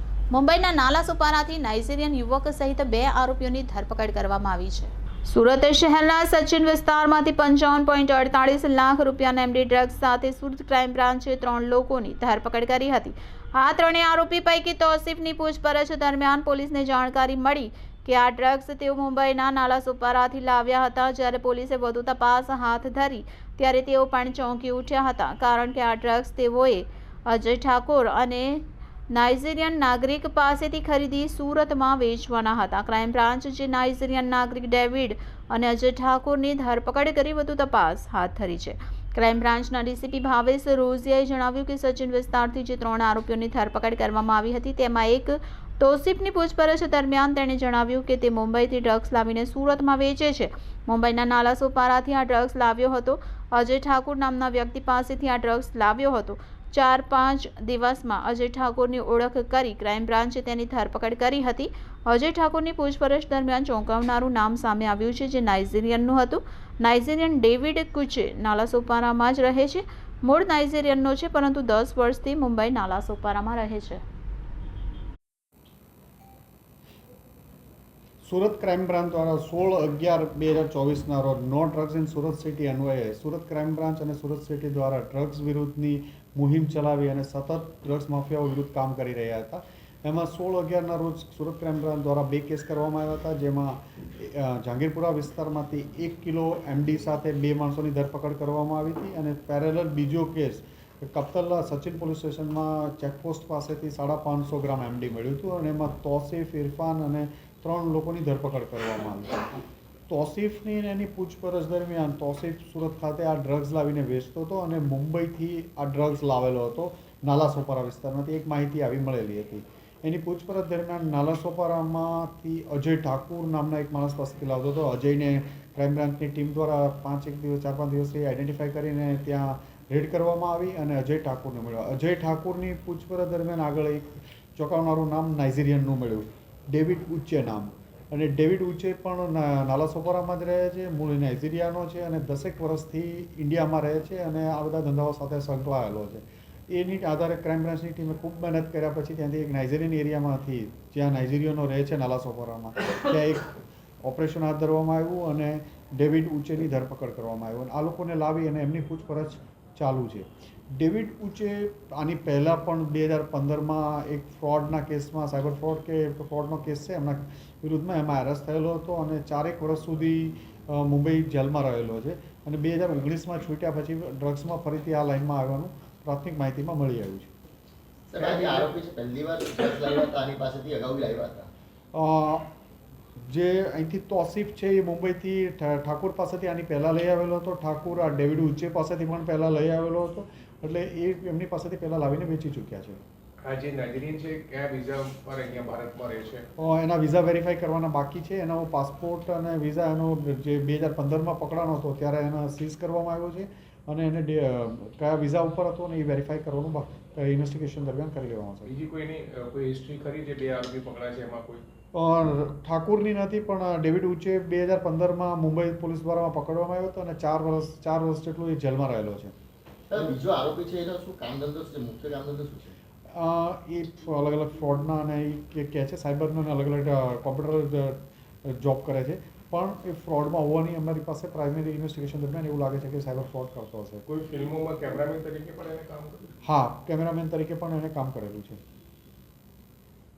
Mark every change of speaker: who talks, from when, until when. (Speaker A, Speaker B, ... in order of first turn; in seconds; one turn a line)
Speaker A: 0.3-74.0
Speaker B: 78.2-109.4
Speaker B: 110.1-177.3
Speaker C: 178.1-181.5
Speaker B: 181.9-182.5
Speaker B: 183.2-193.0
Speaker D: 193.4-196.4
Speaker B: 196.6-208.7
Speaker D: 208.7-211.6
Speaker B: 211.9-219.3
Speaker C: 219.9-222.7
Speaker B: 223.1-234.0
Speaker D: 234.1-236.3
Speaker B: 236.4-238.6